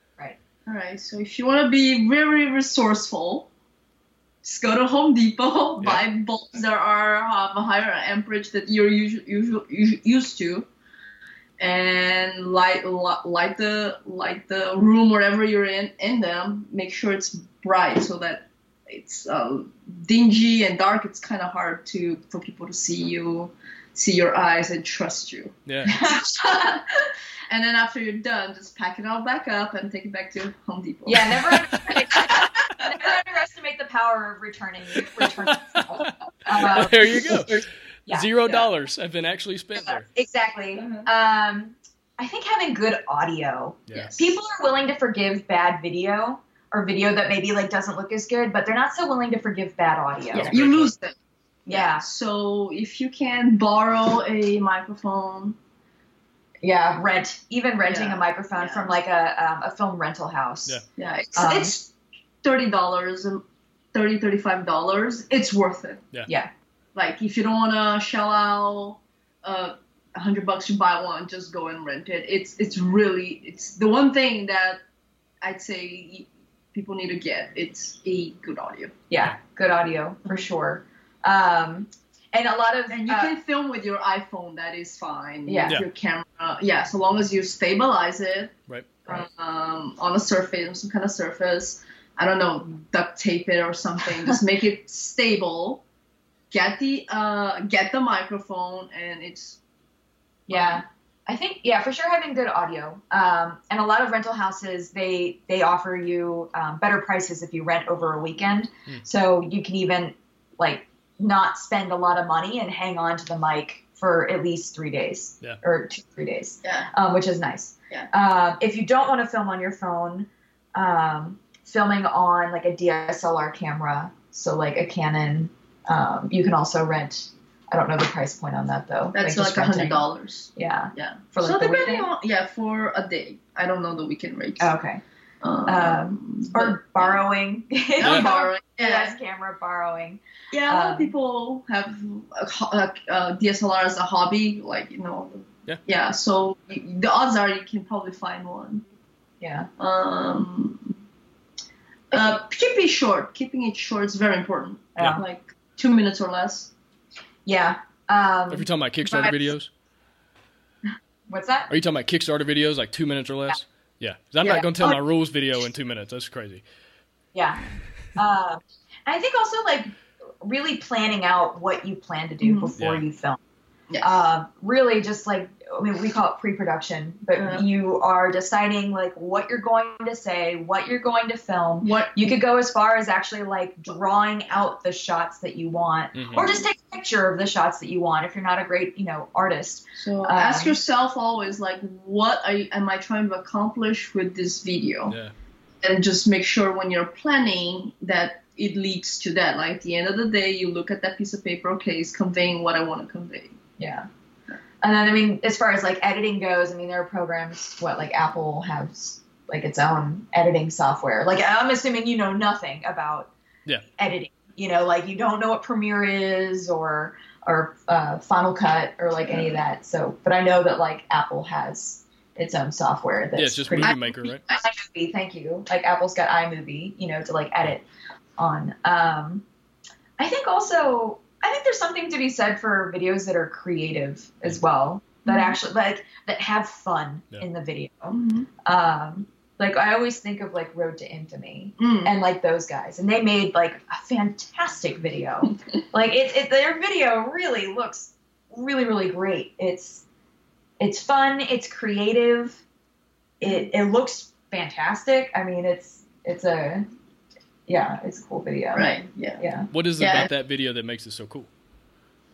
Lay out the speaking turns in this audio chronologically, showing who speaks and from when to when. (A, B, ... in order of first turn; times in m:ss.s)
0:00.7-0:03.5 A
0:04.4-0:10.7 A
0:11.6-0:25.6 A
0:25.7-0:26.0 B
0:25.9-0:26.8 C
0:26.2-0:26.8 A
0:27.5-0:31.5 A
0:31.1-0:37.6 C
0:31.7-0:32.2 B
0:32.2-0:32.5 A
0:35.7-0:40.1 B
0:38.1-0:38.7 C
0:39.8-0:50.5 C
0:40.8-0:41.1 A
0:43.9-0:44.1 B
0:43.9-0:44.4 A
0:50.3-0:51.1 A
0:50.4-0:50.9 B
0:51.7-0:52.0 C
0:51.7-0:55.6 A
0:56.6-1:00.8 C
0:57.8-0:59.0 A
1:01.0-1:01.9 A
1:01.4-1:01.8 C
1:02.4-1:03.4 A
1:03.9-1:06.1 A
1:06.3-1:06.5 C
1:07.0-1:14.8 A
1:15.4-1:18.9 A
1:19.1-1:23.4 C
1:22.9-1:28.5 A
1:25.5-1:25.8 C
1:29.1-1:35.8 A
1:36.5-1:39.6 A
1:40.5-2:10.0 C
1:40.5-1:40.8 A
1:56.6-1:56.9 A
2:09.1-2:14.7 A
2:10.6-2:12.1 C
2:14.6-2:15.0 C
2:15.4-2:17.2 A
2:15.7-2:21.1 C
2:18.0-2:19.2 A
2:18.0-2:18.3 B
2:20.5-2:28.8 A
2:29.4-2:29.7 C
2:29.8-2:30.9 A
2:32.1-2:36.7 A
2:32.1-2:32.4 C
2:35.0-2:35.2 C
2:35.0-2:35.2 B
2:37.5-2:39.4 C
2:38.5-2:39.7 B
2:41.3-2:41.7 C
2:41.7-2:46.6 B
2:44.4-2:45.0 C
2:47.3-2:47.6 C
2:48.2-2:53.4 C
2:52.4-2:52.8 A
2:53.9-2:54.2 A
2:54.0-3:10.8 C
2:57.4-2:57.7 A
3:01.8-3:02.4 A
3:06.1-3:06.6 B
3:10.0-3:15.2 A
3:15.1-3:15.3 B
3:15.8-3:23.6 A
3:23.8-3:24.1 C
3:24.8-3:33.3 C
3:34.0-3:47.9 C
3:39.3-3:39.6 A
3:43.4-3:44.5 B
3:43.8-3:44.6 A
3:48.4-3:49.4 C
3:50.2-4:10.0 C
3:55.2-3:55.6 A
3:58.1-3:58.5 A
4:01.8-4:02.2 A
4:10.8-4:12.6 C
4:13.4-4:16.9 C
4:17.7-4:19.7 C
4:18.7-4:19.5 A
4:19.7-4:21.5 B
4:20.0-4:20.3 A